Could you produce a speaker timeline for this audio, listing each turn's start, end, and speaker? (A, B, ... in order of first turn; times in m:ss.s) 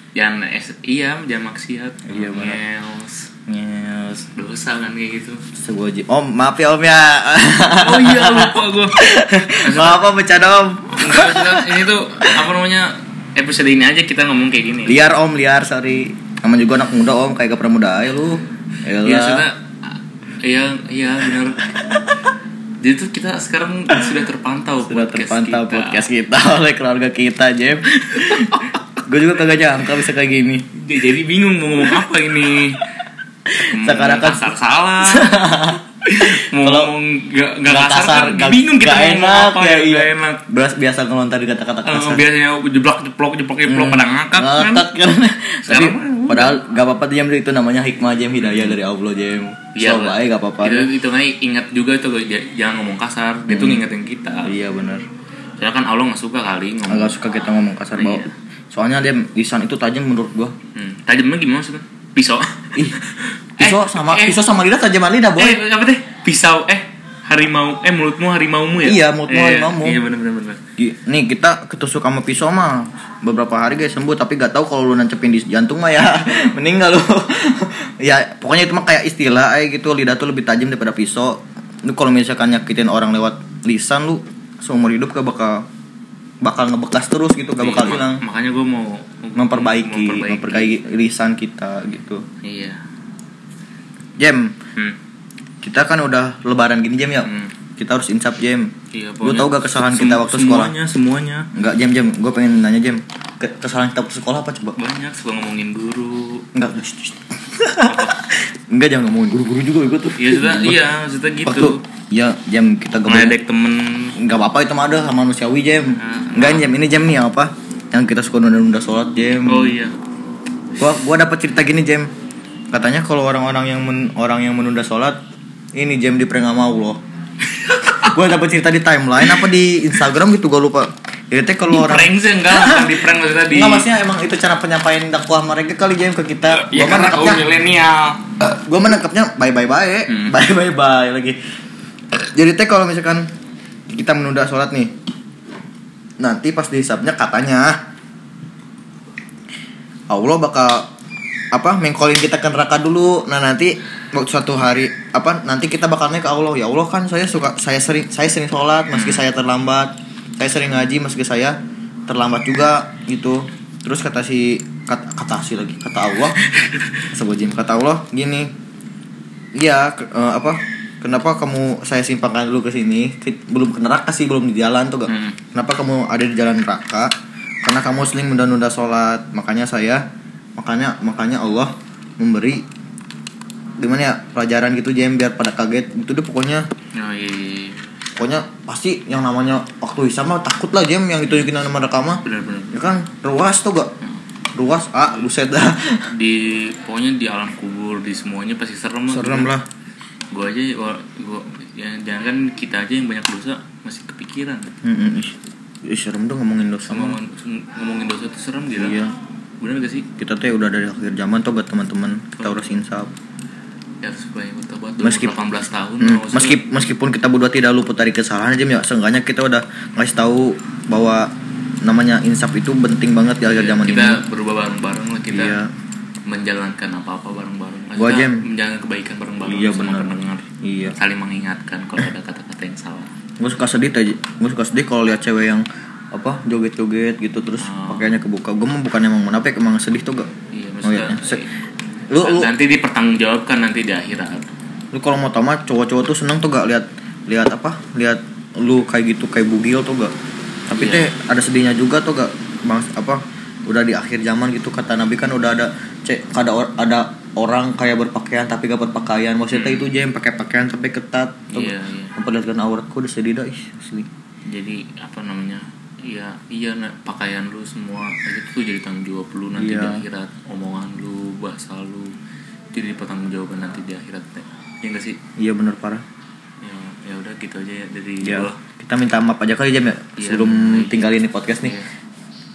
0:00.2-0:03.3 A
0:02.1-0:02.6 B
0:03.5-0:04.3 B
0:04.4-0:05.4 A
0:05.5-0:12.4 B
0:07.8-0:09.0 A
0:09.6-0:10.0 A
0:11.0-0:15.0 A
0:14.9-0:19.5 B
0:19.0-0:19.7 A
0:20.4-0:21.7 A
0:22.8-0:26.0 A
0:24.8-0:30.7 B
0:30.8-0:32.8 A
0:33.5-0:34.5 B
0:33.6-0:35.4 A
0:35.0-0:36.9 B
0:36.0-0:40.4 A
0:37.7-0:42.2 B
0:41.8-0:44.9 A
0:43.7-0:50.9 B
0:45.6-0:46.6 A
0:48.4-0:48.8 A
0:49.8-0:54.5 A
0:53.5-0:53.8 B
0:54.4-0:55.0 B
0:55.6-0:57.2 A
0:56.9-1:00.5 B
0:57.9-0:58.3 A
1:00.8-1:04.4 A
1:03.6-1:05.6 B
1:05.4-1:10.6 A
1:08.8-1:10.0 B
1:10.8-1:25.7 B
1:26.4-1:28.2 B
1:27.6-1:30.7 A
1:29.4-1:32.2 B
1:32.4-1:32.8 A
1:34.2-1:34.6 B
1:35.6-1:40.7 B
1:37.2-1:37.5 A
1:38.9-1:41.5 A
1:41.5-1:44.8 B
1:44.8-1:46.4 A
1:46.5-1:50.8 B
1:47.8-1:48.2 A
1:50.2-1:51.8 A
1:51.4-1:53.4 B
1:53.1-1:54.2 A
1:54.2-1:59.8 B
1:56.0-1:56.7 A
1:59.5-1:59.9 A
2:00.8-2:02.1 B
2:02.7-2:05.2 B
2:05.7-2:07.0 B
2:07.5-2:08.2 A
2:08.0-2:17.4 B
2:11.7-2:13.9 A
2:16.5-2:18.2 A
2:18.4-2:21.4 B
2:20.1-2:20.4 A
2:22.1-2:23.3 B
2:23.9-2:24.9 B
2:26.2-2:27.8 B
2:30.1-2:30.9 B
2:31.5-2:46.4 B
2:38.9-2:39.2 A
2:46.5-2:47.0 A
2:47.1-2:48.5 B
2:49.6-2:57.1 B
2:55.1-2:55.4 A
2:57.6-3:00.0 B
3:00.6-3:02.6 B
3:03.8-3:06.7 B
3:06.9-3:07.9 A
3:08.2-3:13.9 B
3:12.2-3:12.8 A
3:14.5-3:16.1 B
3:16.1-3:19.5 A
3:19.1-3:19.6 B
3:20.3-3:24.7 A
3:24.8-3:27.2 B
3:26.8-3:29.0 A
3:28.8-3:29.2 B
3:29.6-3:30.1 A
3:30.2-3:33.1 B
3:34.0-3:36.6 A
3:35.0-3:35.4 B
3:36.0-3:41.3 B
3:41.8-3:44.2 B
3:43.5-3:45.6 A
3:45.3-3:45.7 B
3:46.3-3:53.1 A
3:48.0-3:48.5 B
3:49.4-3:51.0 B
3:53.4-4:00.3 B
3:57.6-3:58.2 A
4:00.5-4:01.5 A
4:00.8-4:01.4 B
4:02.1-4:02.5 B
4:02.2-4:04.5 A
4:04.9-4:10.1 B
4:10.7-4:24.1 B
4:10.7-4:11.1 A
4:19.5-4:19.9 A
4:21.5-4:22.1 A
4:24.5-4:32.1 A
4:29.6-4:30.0 B
4:32.7-4:35.2 A
4:35.4-4:36.0 B
4:36.6-4:38.6 A
4:38.2-4:41.8 B
4:40.2-4:41.9 A